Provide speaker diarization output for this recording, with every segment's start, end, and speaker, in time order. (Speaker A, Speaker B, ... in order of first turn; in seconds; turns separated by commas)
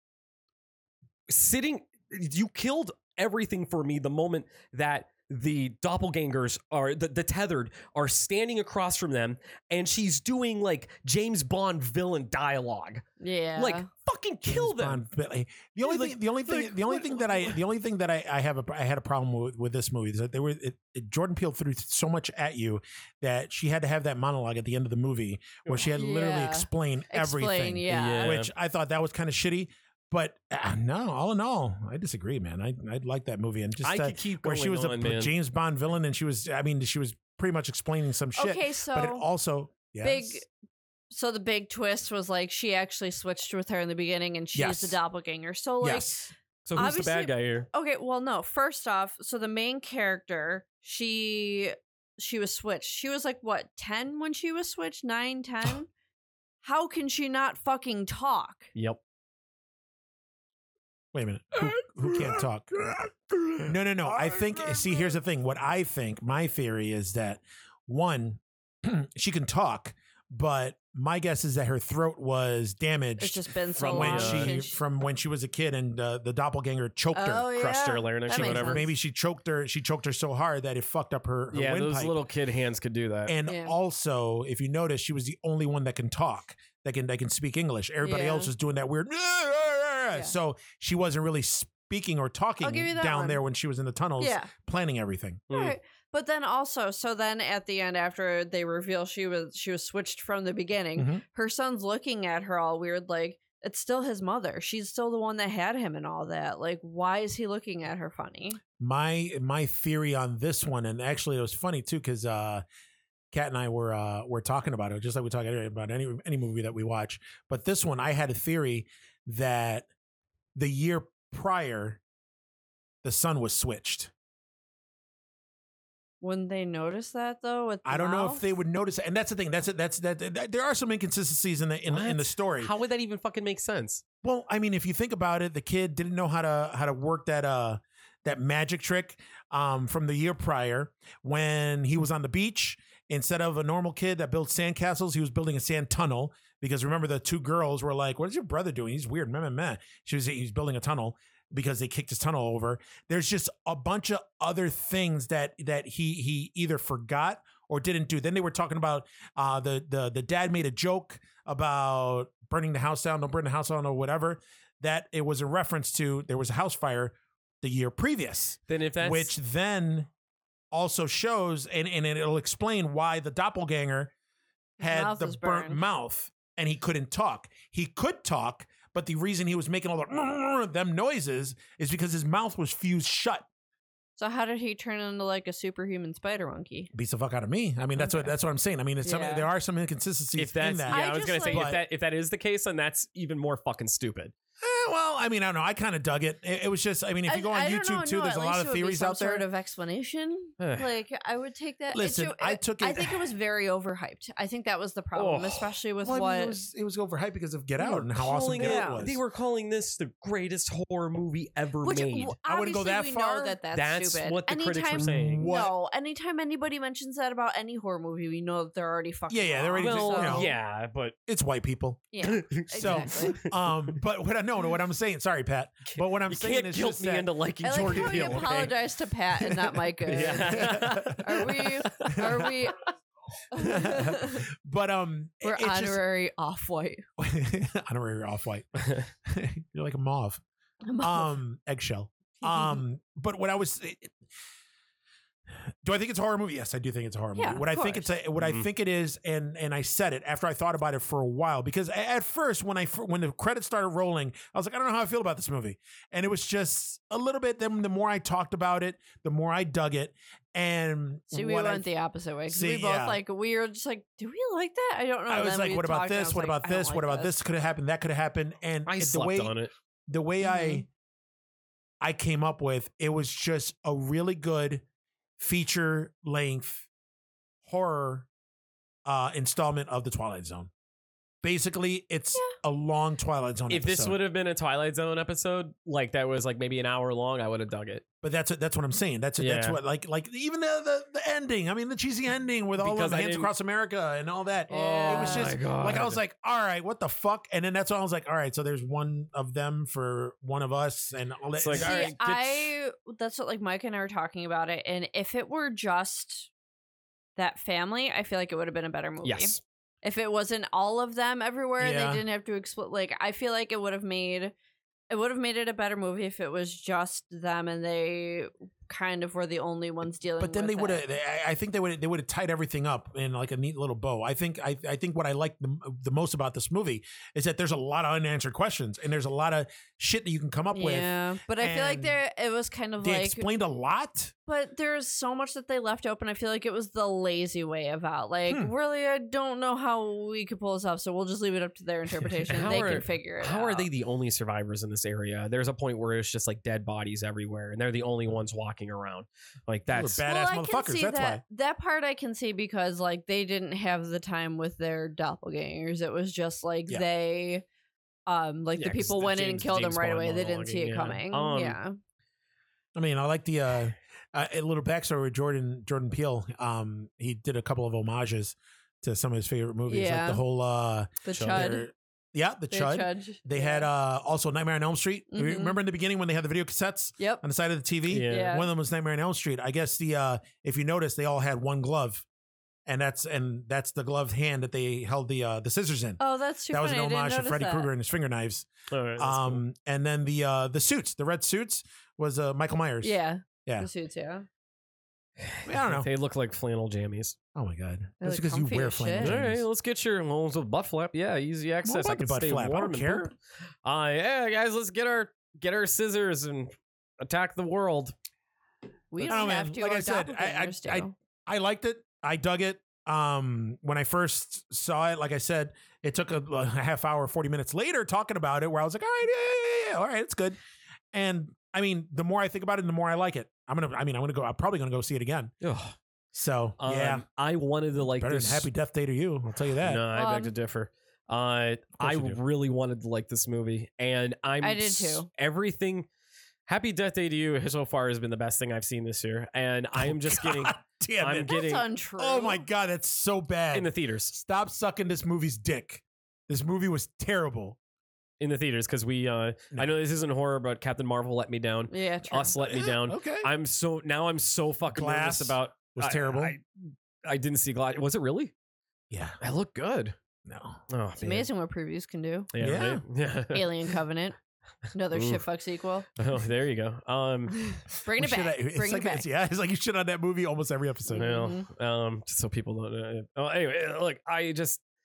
Speaker A: 1.3-13.0, Speaker B: 13.2-13.9, Speaker A: 13.6-15.0, Speaker C: 14.5-40.4, Speaker A: 15.8-17.3, Speaker B: 25.9-28.4, Speaker A: 27.9-28.5, Speaker A: 33.8-35.3, Speaker B: 38.4-39.3, Speaker B: 40.0-40.5, Speaker B: 41.1-55.9, Speaker C: 44.5-45.0, Speaker C: 45.8-46.2, Speaker A: 46.6-47.7, Speaker B: 56.6-58.7, Speaker C: 61.1-62.7, Speaker A: 61.5-65.0, Speaker C: 63.6-77.5, Speaker B: 73.2-74.8, Speaker A: 73.8-74.5, Speaker B: 77.1-78.9, Speaker A: 77.5-78.9, Speaker C: 78.3-82.2, Speaker A: 81.5-83.3, Speaker C: 83.3-95.5, Speaker B: 83.5-83.7, Speaker B: 88.0-88.5, Speaker B: 92.6-93.4, Speaker B: 94.2-94.5, Speaker A: 95.5-95.7, Speaker B: 95.5-108.6, Speaker C: 101.0-101.2, Speaker C: 108.8-112.6, Speaker C: 113.3-119.8, Speaker C: 120.5-122.0, Speaker C: 123.0-124.1, Speaker B: 126.2-128.4, Speaker C: 127.8-132.7, Speaker A: 131.9-134.0, Speaker C: 134.2-170.1, Speaker A: 168.7-169.3, Speaker C: 170.7-174.1, Speaker B: 174.8-175.8, Speaker C: 174.8-183.4, Speaker B: 184.2-186.9, Speaker C: 186.9-191.8, Speaker B: 187.9-188.3, Speaker B: 189.0-189.5, Speaker A: 190.4-194.3, Speaker B: 190.9-191.7, Speaker C: 194.6-199.4, Speaker B: 197.3-206.6, Speaker A: 200.6-200.9, Speaker C: 201.9-203.3, Speaker A: 205.1-205.7, Speaker C: 206.0-209.2, Speaker A: 207.9-212.3, Speaker B: 208.6-209.0, Speaker B: 211.8-220.5, Speaker C: 212.4-213.6, Speaker A: 213.7-215.5, Speaker C: 214.9-215.7, Speaker C: 219.3-220.5, Speaker A: 219.8-221.2, Speaker C: 221.3-228.6, Speaker B: 222.1-223.4, Speaker A: 222.2-223.8, Speaker A: 225.9-228.8, Speaker B: 227.6-232.8, Speaker A: 230.1-232.5, Speaker C: 230.3-232.5, Speaker B: 233.5-234.4, Speaker C: 233.5-236.0, Speaker B: 235.4-237.0, Speaker C: 237.2-240.4, Speaker A: 238.8-239.1, Speaker B: 240.8-241.3, Speaker C: 241.0-244.2, Speaker B: 242.4-242.8, Speaker C: 245.8-261.9, Speaker B: 247.3-248.1, Speaker A: 248.4-248.7, Speaker B: 261.3-267.3, Speaker C: 262.4-263.2, Speaker C: 265.3-269.6, Speaker A: 268.9-269.7, Speaker C: 270.1-270.9, Speaker B: 270.4-270.8, Speaker C: 272.0-274.8, Speaker C: 275.4-276.9, Speaker C: 277.6-278.3, Speaker C: 279.1-280.7, Speaker C: 281.4-284.2, Speaker A: 283.7-288.0, Speaker C: 288.2-302.2, Speaker A: 289.4-289.8, Speaker A: 292.8-293.5, Speaker B: 294.7-295.5, Speaker A: 294.7-296.2, Speaker A: 301.6-302.7, Speaker B: 301.7-306.5, Speaker B: 307.4-314.5, Speaker A: 309.2-309.6, Speaker C: 311.8-312.2, Speaker B: 315.1-321.0, Speaker C: 320.4-332.2, Speaker B: 330.7-333.5, Speaker C: 333.0-334.3, Speaker B: 334.4-343.9, Speaker C: 338.5-338.7, Speaker C: 342.4-342.9, Speaker A: 342.5-350.2, Speaker C: 349.9-351.4, Speaker B: 350.2-357.6, Speaker B: 358.3-362.0, Speaker A: 358.8-361.8, Speaker C: 362.9-382.2, Speaker B: 369.9-370.4, Speaker B: 371.2-371.9, Speaker A: 371.3-371.8, Speaker B: 372.7-373.9, Speaker B: 375.3-375.8, Speaker A: 378.1-378.5, Speaker B: 378.3-378.7, Speaker C: 382.9-393.1, Speaker B: 386.2-387.9, Speaker A: 388.9-389.6, Speaker B: 393.0-394.5, Speaker A: 395.4-397.4, Speaker C: 395.6-396.1, Speaker C: 397.5-399.6, Speaker B: 398.2-399.4, Speaker A: 399.2-403.3, Speaker C: 401.8-403.3, Speaker A: 403.8-408.1, Speaker B: 409.1-411.1, Speaker C: 409.2-420.6, Speaker C: 421.1-425.5, Speaker A: 425.6-425.9, Speaker C: 426.3-427.2, Speaker A: 426.8-428.7, Speaker C: 428.0-430.0, Speaker A: 429.8-436.1, Speaker B: 430.1-430.5, Speaker C: 432.0-432.4, Speaker B: 434.6-435.3, Speaker A: 436.7-441.8, Speaker C: 440.0-441.6, Speaker B: 441.5-442.6, Speaker C: 442.2-447.8, Speaker A: 443.7-444.3, Speaker A: 448.4-458.5, Speaker B: 451.9-452.5, Speaker C: 452.6-453.5, Speaker C: 454.9-456.5, Speaker C: 459.1-459.4, Speaker A: 459.4-460.1, Speaker C: 460.4-460.8, Speaker A: 460.9-461.5, Speaker B: 461.2-462.5, Speaker A: 462.5-463.8, Speaker C: 462.6-463.0, Speaker B: 463.5-464.4, Speaker B: 464.9-466.1, Speaker A: 465.1-465.4, Speaker A: 466.2-467.6, Speaker B: 467.6-469.2, Speaker C: 468.1-471.3, Speaker B: 471.1-471.7, Speaker A: 471.1-474.8